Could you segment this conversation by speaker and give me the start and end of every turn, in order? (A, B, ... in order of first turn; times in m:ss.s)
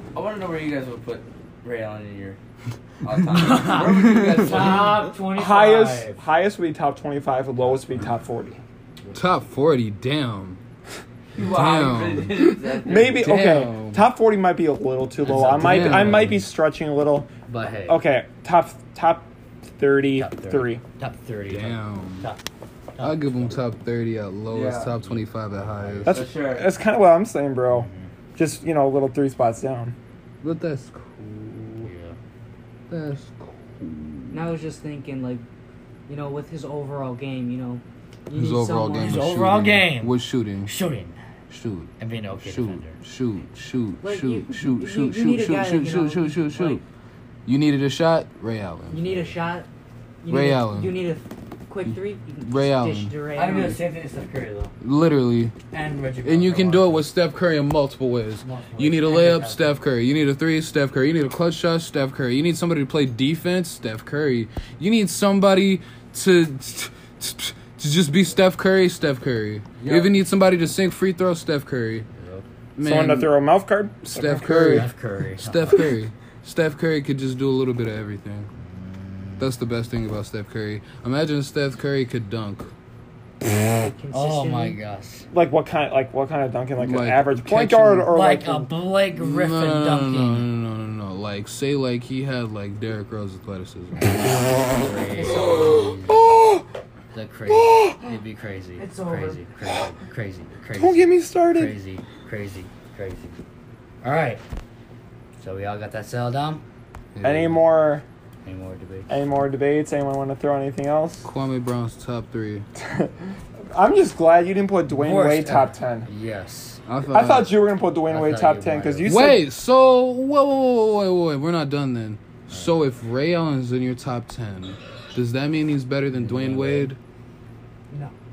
0:00.1-0:02.4 A
0:03.0-0:05.0 A
0:03.3-0:04.9 B
0:03.4-0:06.2 C
0:05.2-0:08.6 D
0:07.6-0:08.1 C
0:09.1-0:10.6 B
0:11.3-0:13.2 A
0:11.4-0:14.0 B
0:12.8-0:17.3 D
0:15.2-0:16.4 C
0:15.3-0:16.3 B
0:17.5-0:18.0 C
0:17.8-0:20.8 D
0:20.1-0:22.4 C
0:21.5-0:22.3 B
0:22.9-0:23.6 C
0:23.0-0:26.2 B
0:24.5-0:24.9 A
0:25.0-0:26.3 C
0:26.0-0:29.9 D
0:26.1-0:26.7 A
0:27.7-0:28.1 C
0:30.4-0:31.9 B
0:31.8-0:32.2 C
0:32.9-0:34.5 B
0:34.3-0:35.4 E
0:36.1-0:39.3 E
0:38.3-0:40.7 B
0:39.0-0:41.2 C
0:41.5-0:46.8 B
0:42.0-0:43.0 C
0:44.0-0:46.8 E
0:47.4-0:49.3 B
0:48.9-0:49.7 E
0:50.2-0:53.8 E
0:50.3-0:50.9 B
0:51.8-0:53.2 B
0:53.3-0:54.7 C
0:54.8-0:55.5 B
0:55.7-0:57.1 C
0:56.2-1:12.1 B
0:58.4-0:59.7 C
1:09.8-1:10.1 A
1:12.1-1:12.5 C
1:12.8-1:13.3 B
1:12.8-1:14.9 D
1:14.0-1:18.5 B
1:14.2-1:16.0 C
1:18.5-1:19.5 C
1:19.4-1:22.7 B
1:23.8-1:24.8 E
1:24.1-1:25.3 C
1:25.3-1:28.7 D
1:26.8-1:28.1 B
1:28.1-1:30.5 C
1:29.2-1:34.4 B
1:34.0-1:36.4 C
1:35.1-1:35.9 E
1:35.3-1:36.6 D
1:37.1-1:43.4 C
1:37.5-1:38.2 D
1:38.8-1:39.4 E
1:40.7-1:41.7 D
1:44.0-1:44.4 C
1:45.4-1:46.6 C
1:47.1-1:47.6 B
1:47.2-1:48.0 D
1:48.4-1:49.2 C
1:49.1-1:51.3 D
1:51.2-1:52.7 B
1:52.8-1:56.1 D
1:54.9-1:56.8 C
1:56.9-1:57.5 B
1:57.1-1:59.4 D
1:58.1-1:59.2 C
1:59.0-2:07.0 B
2:02.5-2:02.8 C
2:06.1-2:06.9 C